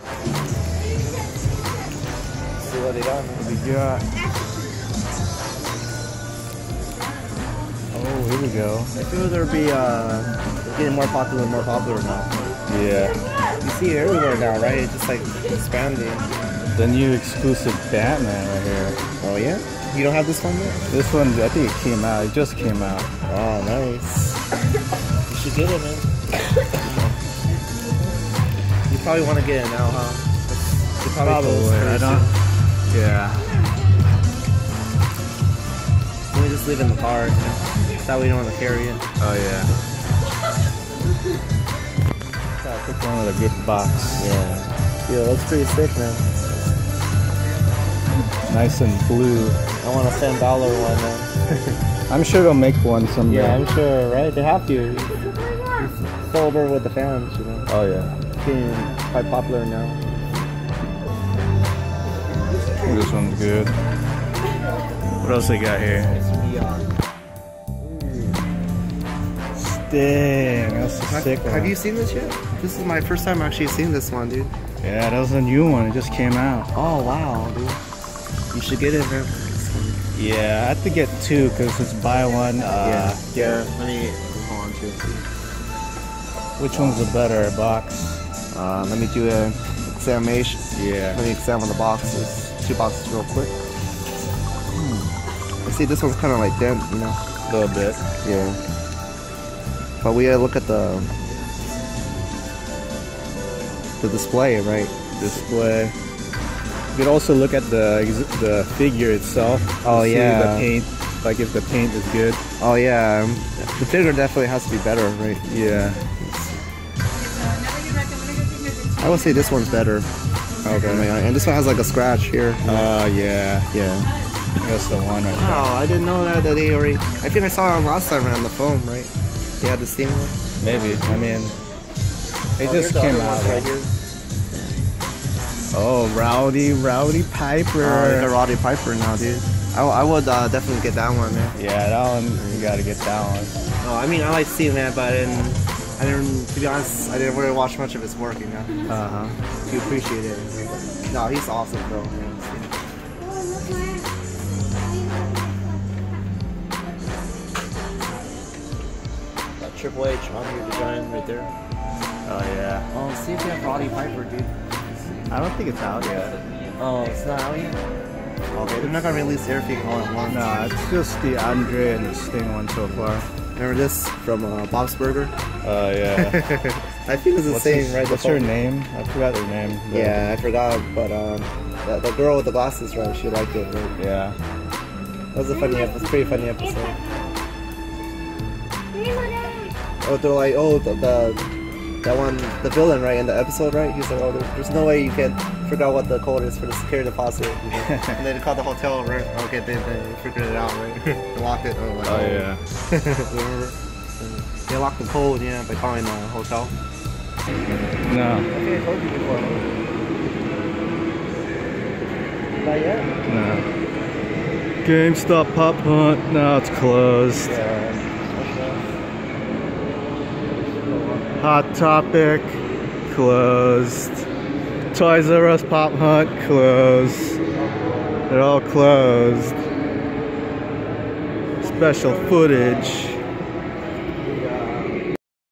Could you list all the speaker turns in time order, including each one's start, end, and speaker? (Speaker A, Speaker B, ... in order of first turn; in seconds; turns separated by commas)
Speaker A: 2.6-3.5, Speaker B: 3.4-4.0, Speaker B: 7.9-8.9, Speaker A: 9.0-12.5, Speaker B: 12.7-13.2, Speaker A: 13.6-16.2, Speaker B: 16.7-19.0, Speaker A: 19.2-20.8, Speaker B: 20.9-23.1, Speaker A: 23.2-24.4, Speaker A: 25.3-27.2, Speaker A: 28.9-30.4, Speaker A: 31.0-32.4, Speaker B: 31.2-32.3, Speaker B: 32.9-33.5, Speaker A: 36.3-39.0, Speaker B: 39.2-39.7, Speaker B: 42.6-44.3, Speaker A: 44.2-46.3, Speaker B: 48.5-49.6, Speaker A: 49.8-51.3, Speaker B: 52.1-53.6, Speaker A: 53.3-55.2, Speaker A: 56.3-57.7, Speaker B: 57.7-58.2, Speaker A: 58.3-60.0, Speaker B: 62.8-63.8, Speaker B: 65.2-66.1, Speaker A: 66.1-66.9, Speaker A: 67.8-68.4, Speaker B: 69.5-71.7, Speaker A: 71.1-74.5, Speaker B: 74.8-76.7, Speaker A: 76.7-77.8, Speaker A: 78.5-80.0, Speaker B: 80.1-83.7, Speaker A: 82.7-85.3, Speaker B: 86.6-88.0, Speaker A: 86.7-87.0, Speaker A: 88.5-90.6, Speaker B: 90.7-91.2, Speaker A: 91.1-93.6, Speaker A: 95.6-97.2, Speaker B: 97.5-98.0, Speaker A: 98.2-98.6, Speaker A: 100.0-101.1, Speaker A: 104.0-104.9, Speaker B: 105.2-106.0, Speaker B: 106.9-112.4, Speaker A: 109.8-110.7, Speaker A: 112.6-115.4, Speaker B: 115.4-116.0, Speaker A: 116.2-116.5, Speaker A: 119.0-120.1, Speaker B: 120.6-121.1, Speaker A: 120.8-122.9, Speaker B: 122.6-123.7, Speaker A: 123.7-124.1, Speaker B: 124.6-125.7, Speaker A: 125.3-130.9, Speaker B: 130.6-131.6, Speaker B: 132.6-133.7, Speaker A: 132.6-133.9, Speaker B: 135.7-138.3, Speaker A: 137.8-141.5, Speaker B: 141.5-143.5, Speaker A: 142.4-142.7, Speaker A: 143.8-148.7, Speaker B: 148.9-149.4, Speaker A: 149.6-152.7, Speaker A: 159.6-161.5, Speaker B: 162.2-162.9, Speaker A: 162.9-164.6, Speaker B: 165.4-166.3, Speaker A: 166.8-167.8, Speaker A: 168.5-170.6, Speaker B: 170.3-173.3, Speaker A: 173.5-175.3, Speaker B: 175.6-176.4, Speaker A: 176.2-178.5, Speaker B: 177.4-180.3, Speaker A: 179.9-183.9, Speaker B: 184.0-184.4, Speaker A: 185.3-187.0, Speaker A: 190.0-191.5, Speaker A: 192.0-206.7, Speaker B: 197.8-198.2, Speaker B: 202.0-202.6, Speaker B: 208.0-208.5, Speaker A: 208.5-209.7, Speaker A: 212.6-213.1, Speaker B: 213.2-213.7, Speaker B: 214.8-217.6, Speaker A: 217.4-218.9, Speaker A: 220.6-221.5, Speaker B: 221.4-224.3, Speaker B: 224.9-227.4, Speaker A: 227.5-228.1, Speaker B: 228.3-229.6, Speaker A: 231.6-232.9, Speaker B: 231.6-233.2, Speaker A: 234.2-235.0